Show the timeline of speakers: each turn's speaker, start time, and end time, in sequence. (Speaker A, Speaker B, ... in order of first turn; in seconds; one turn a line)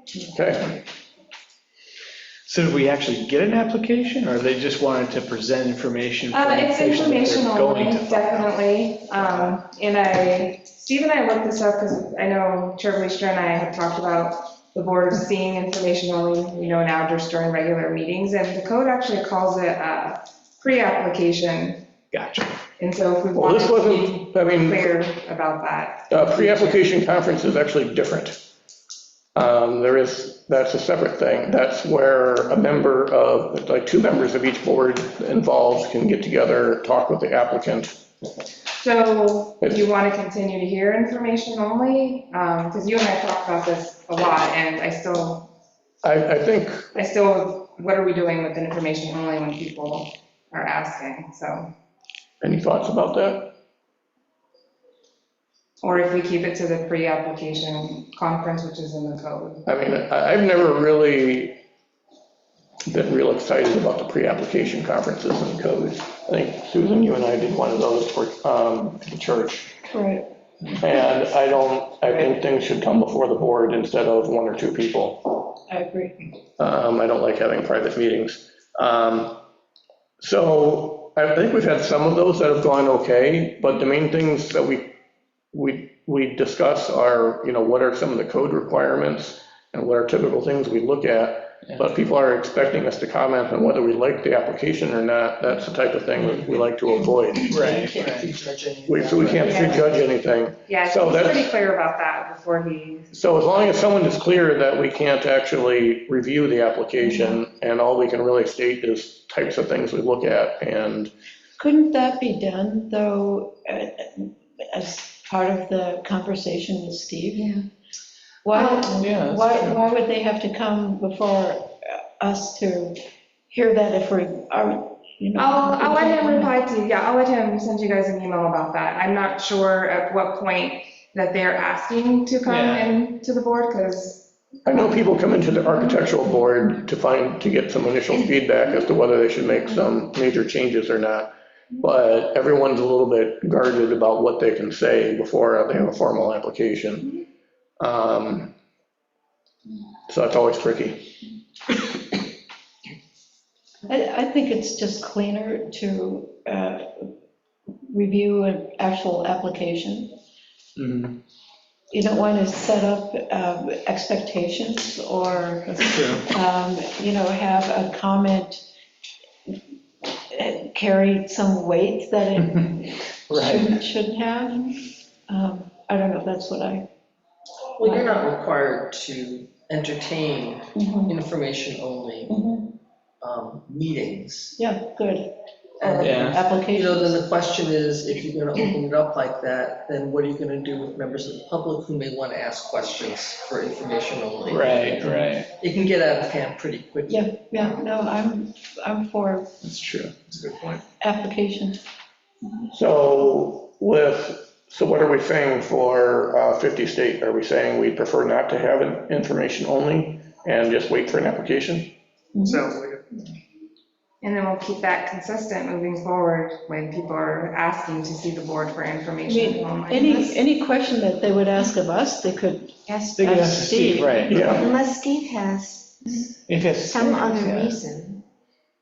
Speaker A: 0.3-0.8
Speaker B: 2.5-8.5
Speaker C: 6.3-21.9
Speaker B: 22.1-22.5
Speaker C: 22.8-26.8
Speaker A: 23.3-24.9
Speaker A: 26.1-28.5
Speaker A: 29.4-38.0
Speaker C: 38.8-45.5
Speaker A: 46.0-46.9
Speaker C: 47.0-51.7
Speaker A: 52.4-53.5
Speaker C: 55.8-59.7
Speaker A: 59.7-61.6
Speaker A: 62.9-69.8
Speaker D: 69.9-70.3
Speaker A: 70.8-75.5
Speaker D: 75.7-76.2
Speaker A: 76.6-79.4
Speaker A: 80.2-84.9
Speaker A: 85.5-97.7
Speaker E: 96.2-96.6
Speaker E: 97.4-100.0
Speaker B: 97.5-98.2
Speaker A: 98.9-101.5
Speaker C: 99.4-99.8
Speaker C: 100.7-103.1
Speaker A: 103.1-111.1
Speaker D: 111.6-117.6
Speaker D: 118.4-123.0
Speaker B: 119.0-119.8
Speaker D: 123.5-126.5
Speaker C: 125.4-134.3
Speaker B: 132.5-132.9
Speaker A: 134.7-147.2
Speaker A: 147.8-148.6
Speaker A: 150.1-151.2
Speaker D: 153.9-157.1
Speaker D: 157.9-160.2
Speaker B: 160.8-161.2
Speaker D: 161.9-168.6
Speaker B: 165.7-166.3
Speaker D: 170.3-176.9
Speaker B: 173.3-173.8
Speaker E: 177.8-182.3
Speaker D: 177.8-178.1
Speaker D: 180.8-181.2
Speaker D: 182.3-182.7
Speaker E: 183.2-184.6
Speaker D: 184.6-187.2
Speaker E: 185.8-197.6
Speaker B: 186.0-186.4
Speaker B: 194.5-195.5
Speaker D: 197.1-199.5
Speaker B: 199.6-200.2
Speaker D: 201.0-201.8
Speaker A: 202.7-212.0
Speaker D: 212.3-212.7
Speaker C: 214.2-220.4
Speaker D: 219.3-224.4
Speaker F: 222.9-225.9
Speaker B: 223.1-224.6
Speaker A: 224.3-224.8
Speaker B: 226.4-227.9
Speaker F: 226.9-228.2